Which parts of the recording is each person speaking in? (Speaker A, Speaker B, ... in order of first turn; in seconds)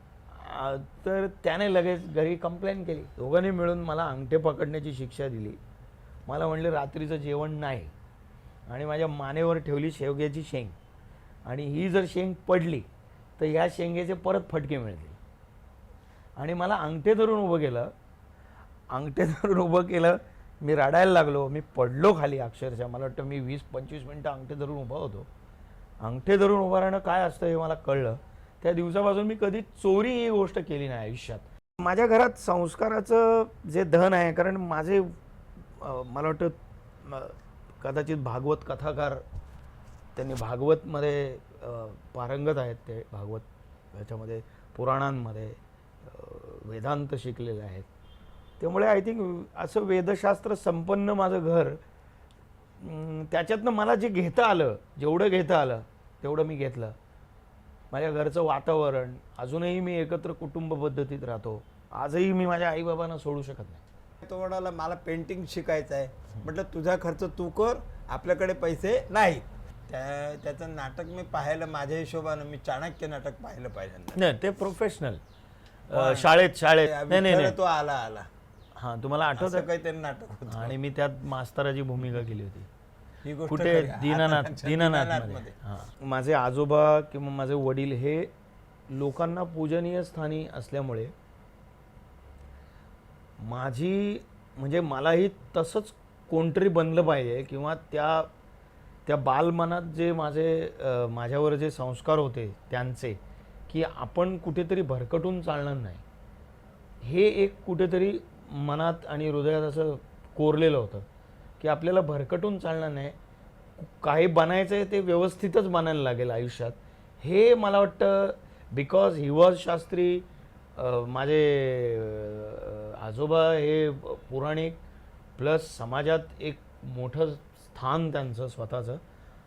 Speaker A: 0.3-5.6, 6.3-7.9, 8.7-10.8, 11.4-12.9, 13.4-15.2, 16.4-17.9, 18.9-25.3, 26.0-35.1, 35.8-39.2, 40.1-47.9, 48.6-51.8, 52.8-56.9, 57.9-63.8, 74.1-75.2, 75.9-77.5, 78.8-79.7, 80.5-82.7, 83.5-88.3, 88.9-91.1, 93.4-98.3, 99.0-106.0, 107.0-111.0, 111.6-113.2, 113.8-124.8, 125.4-129.0
Speaker B: 64.2-74.2, 75.9-76.3, 76.8-78.3, 79.4-80.7, 83.2-85.5